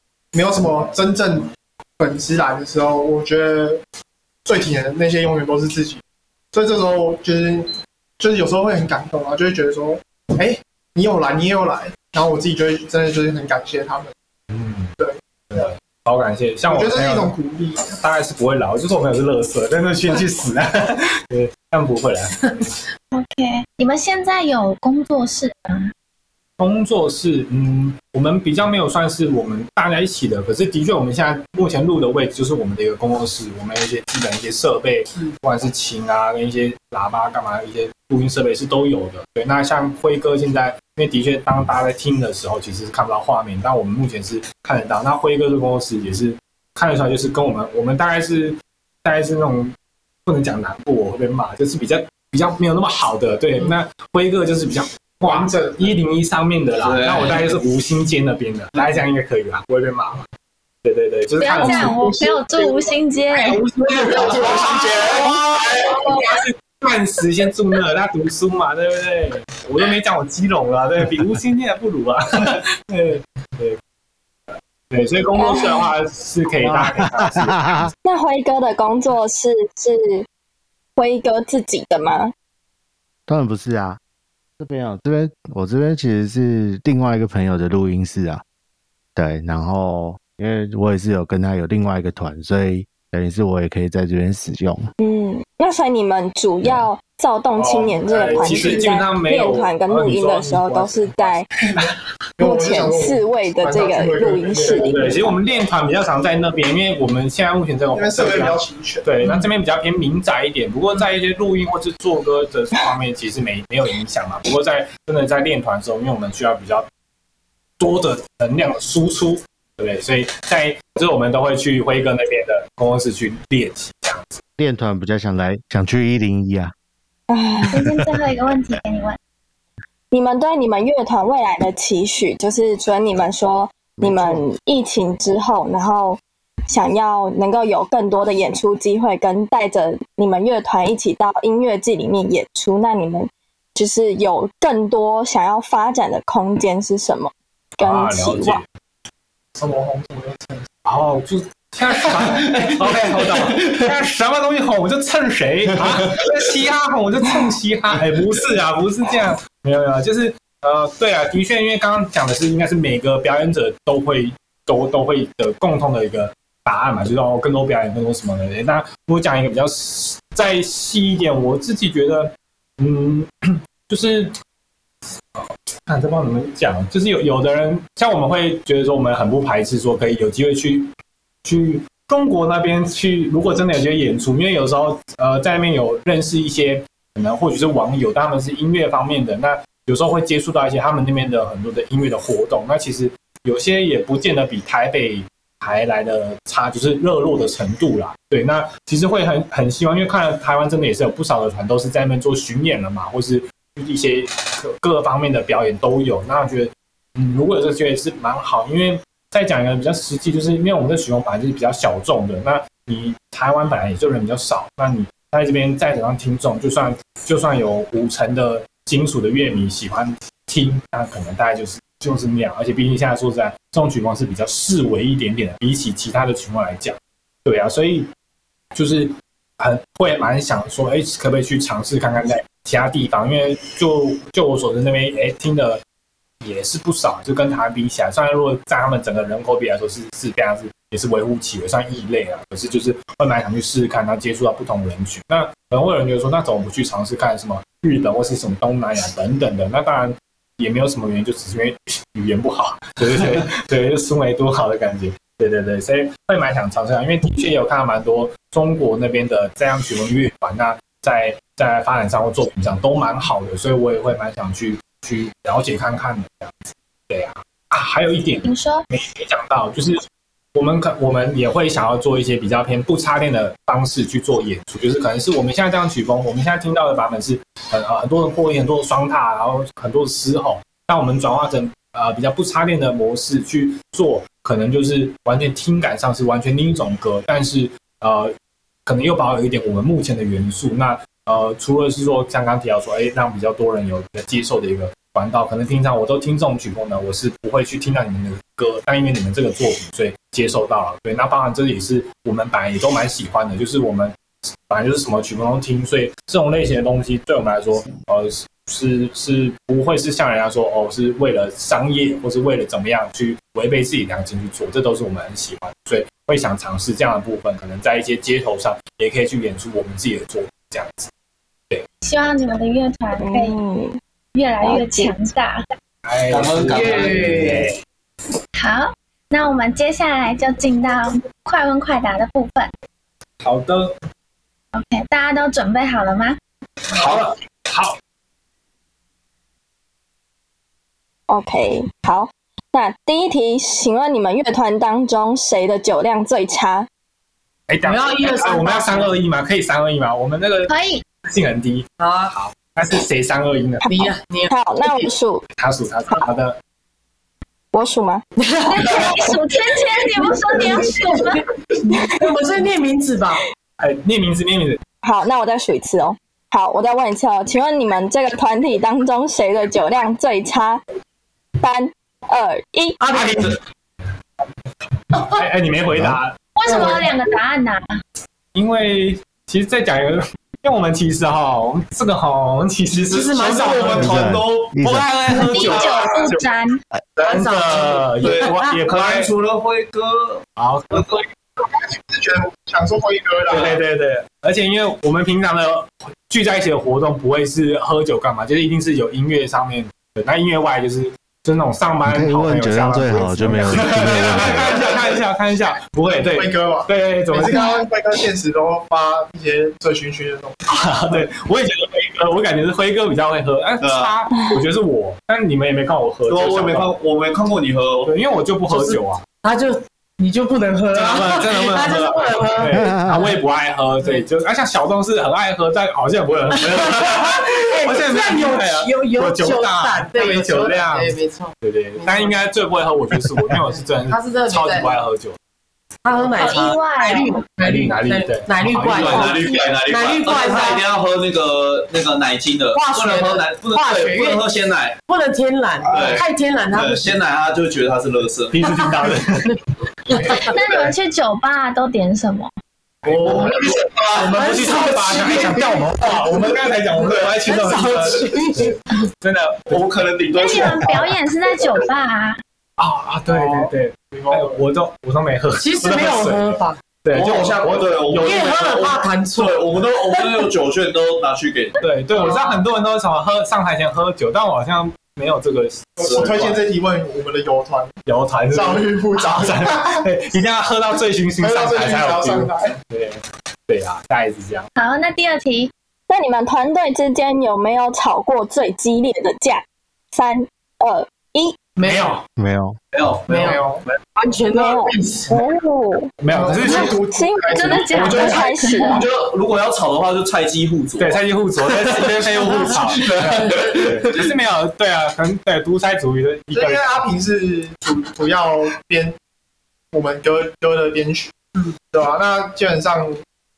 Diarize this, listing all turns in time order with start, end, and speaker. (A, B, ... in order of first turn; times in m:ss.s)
0:00.3-0:03.8 A
0:04.4-0:06.0 A
0:06.5-0:14.1 A
0:14.5-0:14.9 B
0:15.5-0:17.3 B
0:16.7-0:17.9 A
0:17.9-0:22.5 B
0:23.1-0:25.9 C
0:26.6-0:49.7 B
0:50.2-1:00.2 B
0:55.2-0:55.9 A
0:56.8-0:57.4 D
1:00.8-1:02.0 B
1:01.4-1:03.6 C
1:01.6-1:02.9 A
1:03.6-1:05.4 A
1:04.0-1:13.8 B
1:04.4-1:05.8 D
1:14.9-1:17.9 B
1:15.4-1:15.9 E
1:16.6-1:17.9 F
1:18.0-1:20.2 E
1:21.0-1:22.3 E
1:23.3-1:24.0 F
1:24.6-1:28.4 F
1:29.2-1:34.9 F
1:35.0-1:41.5 E
1:37.6-1:41.9 B
1:38.1-1:38.9 A
1:42.4-1:45.3 A
1:42.4-1:45.3 E
1:44.6-1:56.8 B
1:47.9-1:49.0 A
1:57.8-2:04.4 B
2:04.6-2:06.7 F
2:07.3-2:07.8 E
2:07.7-2:09.2 C
2:10.1-2:28.6 E
2:14.0-2:14.4 F
2:27.8-2:28.6 B
2:29.6-2:30.6 A
2:30.8-2:54.3 B
2:55.3-3:00.9 B
3:01.4-3:48.1 B
3:48.7-3:55.8 B
3:56.4-4:30.0 B
4:28.4-4:28.8 C
4:30.5-4:48.3 B
4:48.8-5:04.1 B
5:04.7-5:21.1 B
5:22.0-5:23.6 C
5:23.2-5:24.0 E
5:24.3-5:25.6 C
5:24.6-5:25.1 E
5:26.0-5:27.7 B
5:26.3-5:27.6 D
5:26.7-5:27.6 G
5:28.6-5:32.7 C
5:33.4-5:33.9 B
5:34.7-5:36.4 C
5:36.9-5:38.0 B
5:41.3-5:46.9 E
5:47.7-5:50.7 B
5:47.8-5:49.2 G
5:50.7-5:51.0 C
5:51.2-5:53.8 B
5:52.0-5:52.3 G
5:53.8-5:54.5 G
5:54.5-5:55.4 E
5:55.6-5:56.6 B
5:57.7-5:58.2 E
5:58.4-5:59.2 G
5:58.7-6:01.4 C
6:00.1-6:03.4 G
6:03.8-6:04.8 B
6:05.0-6:10.8 E
6:11.6-6:13.0 E
6:13.0-6:13.5 G
6:13.1-6:13.6 B
6:15.1-6:17.0 B
6:16.6-6:17.8 C
6:18.5-6:24.2 B
6:23.1-6:24.2 G
6:23.4-6:26.3 D
6:24.0-6:25.3 F
6:24.8-6:26.4 B
6:25.3-6:26.8 C
6:27.2-6:29.3 B
6:27.2-6:28.8 G
6:28.2-6:30.4 D
6:30.6-6:31.2 B
6:31.8-6:33.8 A
6:33.5-6:47.6 B
6:42.1-6:44.9 F
6:46.1-6:50.6 A
6:50.7-6:56.9 B
6:53.8-6:54.1 D
6:56.3-6:58.1 D
6:58.0-6:59.2 B
6:58.7-7:03.2 G
7:00.9-7:15.3 B
7:06.6-7:12.4 G
7:14.1-7:14.9 G
7:16.0-7:20.9 G
7:16.4-7:17.4 C
7:17.6-7:19.4 B
7:19.0-7:25.0 D
7:22.7-7:24.4 G
7:25.1-7:27.1 G
7:25.9-7:28.8 D
7:28.5-7:29.5 B
7:30.1-7:30.5 G
7:30.3-7:32.5 C
7:33.0-7:33.6 B
7:33.1-7:35.3 D
7:34.1-7:39.8 B
7:34.3-7:35.9 G
7:37.4-7:38.8 G
7:39.7-7:41.1 D
7:40.3-7:42.4 C
7:42.8-7:48.8 B
7:43.3-7:44.6 A
7:45.6-7:46.8 G
7:47.1-7:51.8 D
7:48.2-7:49.7 G
7:51.8-7:56.6 B
7:56.0-7:57.9 A
7:58.0-8:04.7 B
7:58.5-8:00.0 A
8:01.4-8:02.8 A
8:04.8-8:05.7 C
8:06.1-8:11.6 E
8:11.8-8:12.1 G
8:11.8-8:12.2 B
8:12.4-8:12.8 F
8:12.9-8:13.6 D
8:13.3-8:13.6 G
8:13.3-8:14.0 B
8:13.4-8:13.8 A
8:14.2-8:15.3 G
8:14.5-8:16.1 E
8:16.2-8:17.0 B
8:16.3-8:18.5 A
8:16.7-8:19.0 E
8:17.5-8:19.0 C
8:17.9-8:18.2 B
8:18.9-8:24.2 D
8:21.0-8:27.0 B
8:26.5-8:29.1 A
8:29.9-8:33.2 A